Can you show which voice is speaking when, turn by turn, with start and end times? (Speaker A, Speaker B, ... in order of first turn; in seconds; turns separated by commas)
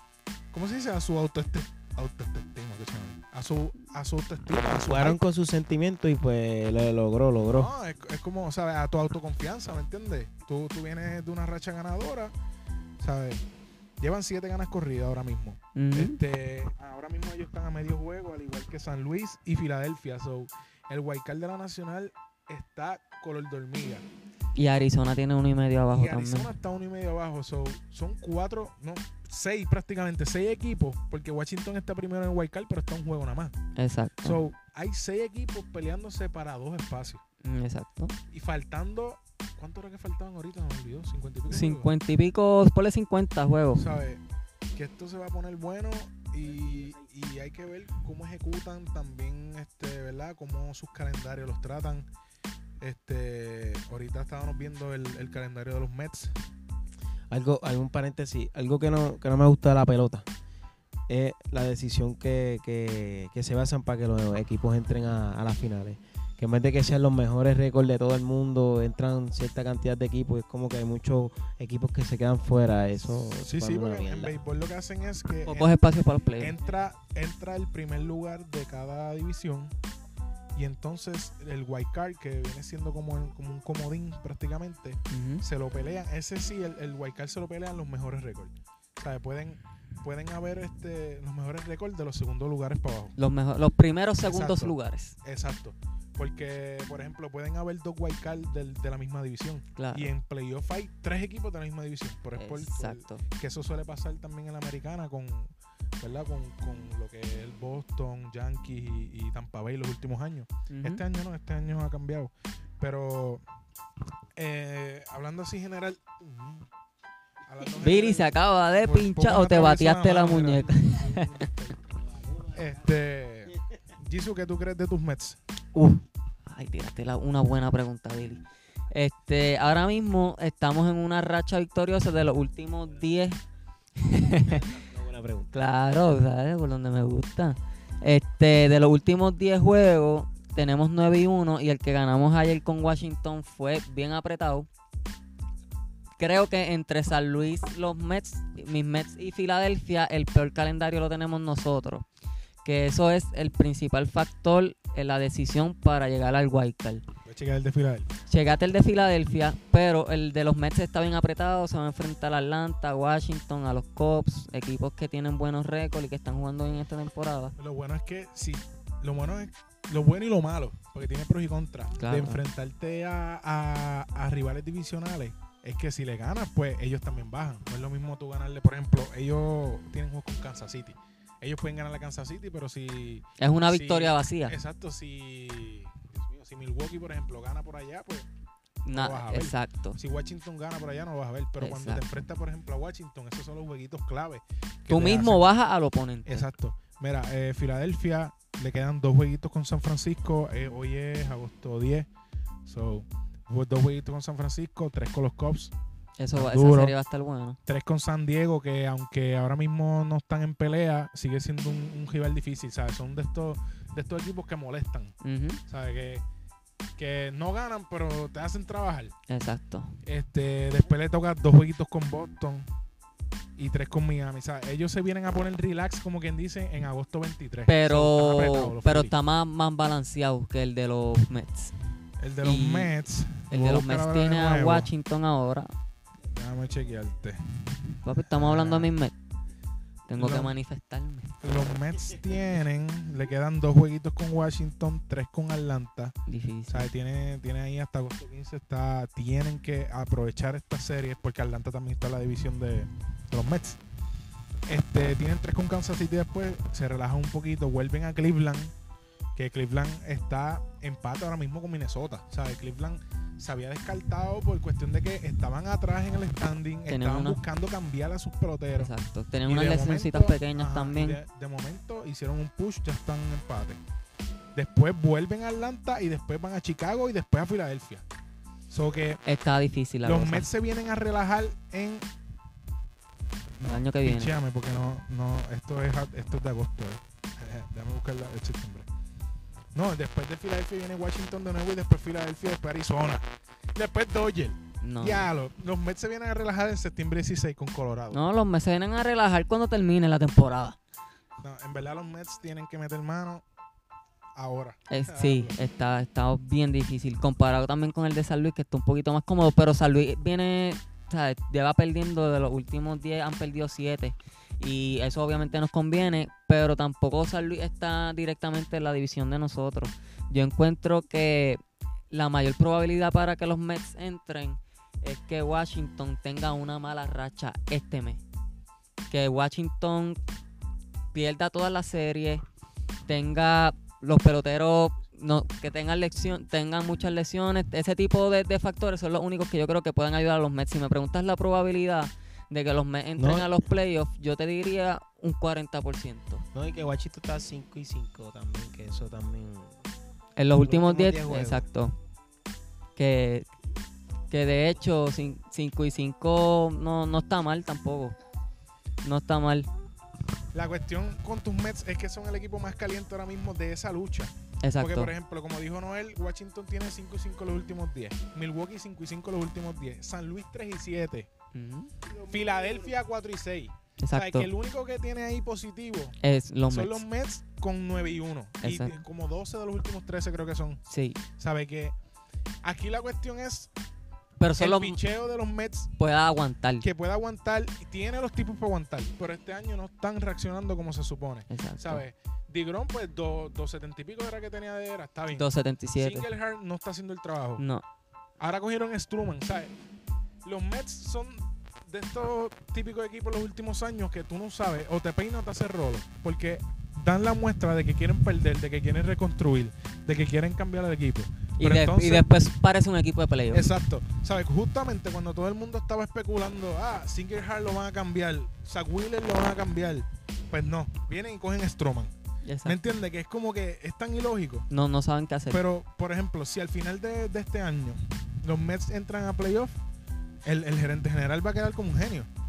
Speaker A: 0.5-5.2, Speaker B: 4.8-7.7, Speaker A: 7.6-12.3, Speaker A: 13.0-13.4, Speaker A: 14.0-24.1, Speaker C: 15.8-16.2, Speaker C: 24.6-26.5, Speaker A: 25.9-33.5, Speaker C: 33.8-34.4, Speaker A: 34.2-37.2, Speaker C: 37.4-38.1, Speaker A: 38.3-41.9, Speaker C: 41.5-43.9, Speaker A: 43.8-44.2, Speaker A: 44.8-52.1, Speaker A: 52.8-56.4, Speaker B: 57.3-60.3, Speaker B: 61.1-74.4, Speaker A: 73.1-75.7, Speaker C: 75.5-76.6, Speaker A: 76.4-79.7, Speaker A: 80.5-93.2, Speaker C: 85.1-85.5, Speaker C: 93.2-95.2, Speaker A: 94.2-113.4, Speaker C: 99.8-100.1, Speaker C: 102.4-103.2, Speaker C: 110.7-111.0, Speaker A: 114.4-116.7, Speaker A: 117.5-121.8, Speaker C: 117.7-121.5, Speaker A: 122.4-125.4, Speaker C: 125.8-133.4, Speaker C: 134.0-134.7, Speaker B: 134.4-135.5, Speaker C: 135.5-144.7, Speaker C: 146.2-152.1, Speaker C: 152.7-157.1, Speaker A: 157.3-158.1, Speaker C: 158.3-167.5, Speaker A: 167.6-188.3, Speaker C: 172.0-172.4, Speaker C: 183.4-184.6, Speaker C: 188.8-190.0, Speaker A: 188.9-195.4, Speaker C: 191.6-192.2, Speaker C: 194.9-196.5, Speaker A: 196.3-202.1, Speaker A: 202.7-205.7, Speaker C: 206.2-207.6, Speaker A: 206.3-207.0, Speaker A: 207.7-215.2, Speaker C: 215.2-215.6, Speaker A: 215.7-216.2, Speaker A: 217.0-219.2, Speaker C: 219.3-220.0, Speaker A: 220.1-222.7, Speaker A: 223.6-229.1, Speaker C: 227.7-231.8, Speaker A: 232.2-234.9, Speaker C: 232.4-232.9, Speaker C: 233.5-235.7, Speaker A: 236.3-238.9, Speaker C: 238.0-239.1, Speaker C: 240.1-241.3, Speaker A: 240.2-240.6, Speaker A: 241.4-246.2, Speaker C: 246.3-246.9, Speaker A: 246.7-253.8, Speaker A: 254.7-258.7, Speaker A: 259.4-268.9, Speaker C: 266.9-267.4, Speaker C: 268.8-271.2, Speaker A: 269.5-273.8, Speaker A: 274.6-278.0, Speaker A: 278.7-279.2, Speaker C: 279.3-280.5, Speaker A: 280.1-282.1, Speaker A: 283.6-288.9, Speaker C: 283.6-284.3, Speaker A: 289.8-298.2, Speaker C: 294.8-295.3, Speaker C: 298.1-300.8, Speaker A: 301.4-303.4, Speaker A: 304.4-305.6, Speaker C: 304.9-321.6, Speaker C: 322.1-328.2, Speaker C: 329.1-330.2, Speaker C: 331.1-332.4, Speaker C: 333.1-346.5, Speaker B: 343.2-343.5, Speaker B: 346.6-349.8, Speaker C: 350.4-351.9, Speaker B: 350.6-351.6, Speaker C: 353.0-353.5, Speaker C: 354.3-358.2, Speaker C: 359.0-359.7, Speaker A: 360.5-371.3, Speaker C: 364.6-365.1, Speaker C: 371.5-371.9, Speaker A: 372.2-376.2, Speaker C: 374.0-374.5, Speaker C: 376.2-377.0, Speaker A: 376.7-381.9, Speaker C: 378.6-379.0, Speaker C: 380.9-381.2, Speaker A: 382.6-383.7, Speaker C: 384.4-385.0, Speaker A: 384.6-385.9, Speaker C: 386.0-386.9, Speaker A: 386.8-397.6, Speaker C: 391.5-392.0, Speaker C: 395.3-396.3, Speaker C: 397.6-397.8, Speaker A: 398.4-399.7, Speaker A: 400.4-412.3, Speaker C: 411.6-413.7, Speaker A: 413.5-422.1, Speaker C: 422.4-422.8, Speaker A: 422.6-424.7, Speaker C: 424.7-425.6, Speaker A: 425.5-429.8, Speaker A: 430.4-432.3